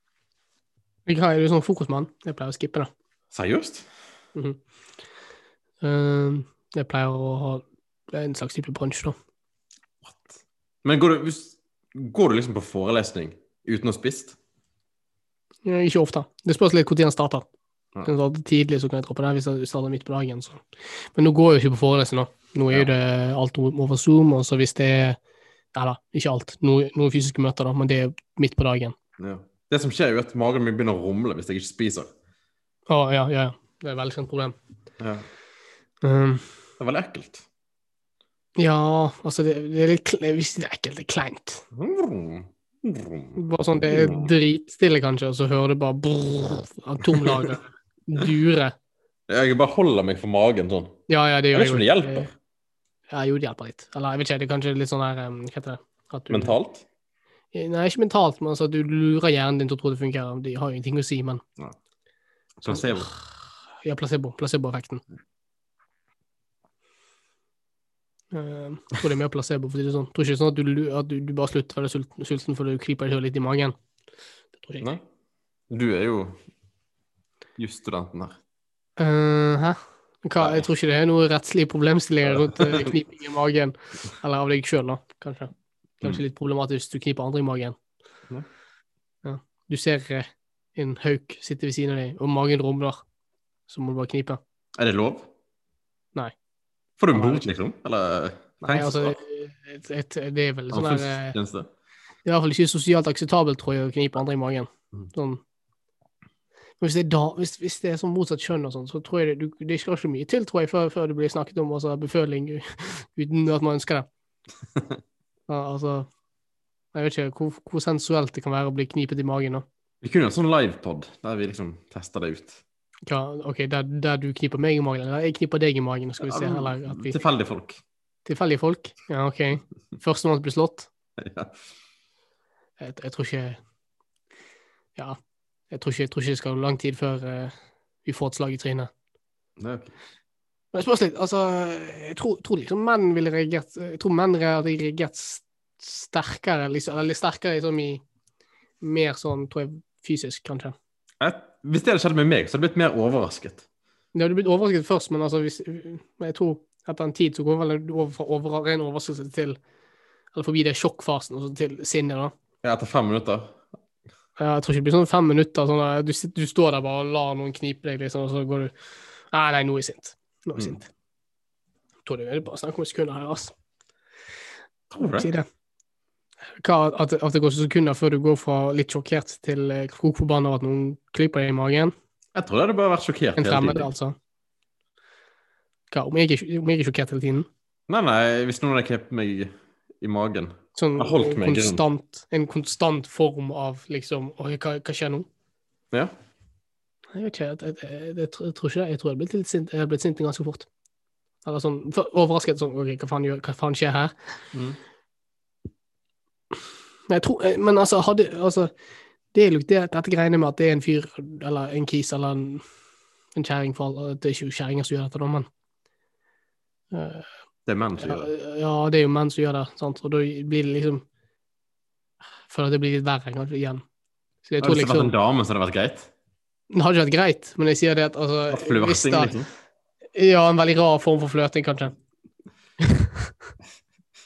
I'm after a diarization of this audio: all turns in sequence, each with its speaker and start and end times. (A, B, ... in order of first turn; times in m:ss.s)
0:01.1-0:02.9 A
0:03.3-0:03.9 B
0:04.4-0:04.6 A
0:05.8-0:09.2 A
0:10.0-0:14.4 B
0:15.6-0:17.5 A
0:18.0-0:20.6 A
0:21.2-0:25.2 A
0:25.8-0:29.0 A
0:29.2-0:32.1 B
0:32.9-0:34.6 A
0:35.0-0:35.3 B
0:36.0-0:36.5 A
0:36.8-0:37.5 B
0:38.6-0:41.6 A
0:41.7-0:44.3 B
0:43.4-0:48.8 A
0:47.2-0:47.5 B
0:49.3-0:51.0 B
0:51.1-0:52.3 A
0:51.5-0:52.3 B
0:53.1-0:56.6 A
0:56.3-0:56.8 B
0:57.5-1:01.4 A
1:02.6-1:03.1 B
1:02.7-1:03.3 A
1:03.8-1:05.0 A
1:08.3-1:13.8 A
1:14.6-1:14.9 A
1:15.7-1:16.4 B
1:17.6-1:18.4 B
1:19.0-1:27.8 A
1:20.4-1:20.7 B
1:22.3-1:23.0 B
1:29.2-1:33.0 A
1:33.7-1:34.4 A
1:34.8-1:35.3 B
1:37.0-1:39.2 B
1:37.1-1:37.5 A
1:38.6-1:41.4 A
1:40.7-1:41.7 B
1:42.2-1:45.4 A
1:46.8-1:54.1 A
1:55.5-1:56.1 A
1:56.9-1:59.6 A
2:00.0-2:02.6 B
2:03.1-2:07.2 A
2:06.2-2:07.8 B
2:08.3-2:10.9 A
2:11.2-2:11.6 B
2:12.8-2:13.6 A
2:15.7-2:17.5 A
2:18.0-2:18.9 A
2:19.6-2:19.9 B
2:20.7-2:28.0 A
2:28.8-2:30.8 A
2:31.2-2:33.6 B
2:34.1-2:39.6 A
2:40.4-2:42.3 A
2:42.6-2:43.6 B
2:44.4-2:48.7 A
2:49.3-2:50.9 A
2:52.0-2:53.5 A
2:54.9-2:55.3 B
2:55.0-2:55.5 A
2:56.6-3:01.9 A
3:02.4-3:03.9 B
3:03.4-3:04.2 A
3:05.9-3:07.5 A
3:07.9-3:11.8 B
3:10.8-3:15.3 A
3:17.1-3:20.7 A
3:21.4-3:24.3 A
3:24.5-3:24.8 B
3:27.1-3:28.7 A
3:29.3-3:32.6 A
3:33.4-3:35.5 A
3:36.9-3:37.3 A
3:37.7-3:38.3 B
3:38.0-3:41.0 A
3:42.5-3:43.8 A
3:44.4-3:45.1 A
3:44.6-3:46.1 B
3:46.7-3:49.4 A
3:48.5-3:49.5 B
3:50.2-3:52.0 A
3:52.8-3:53.3 A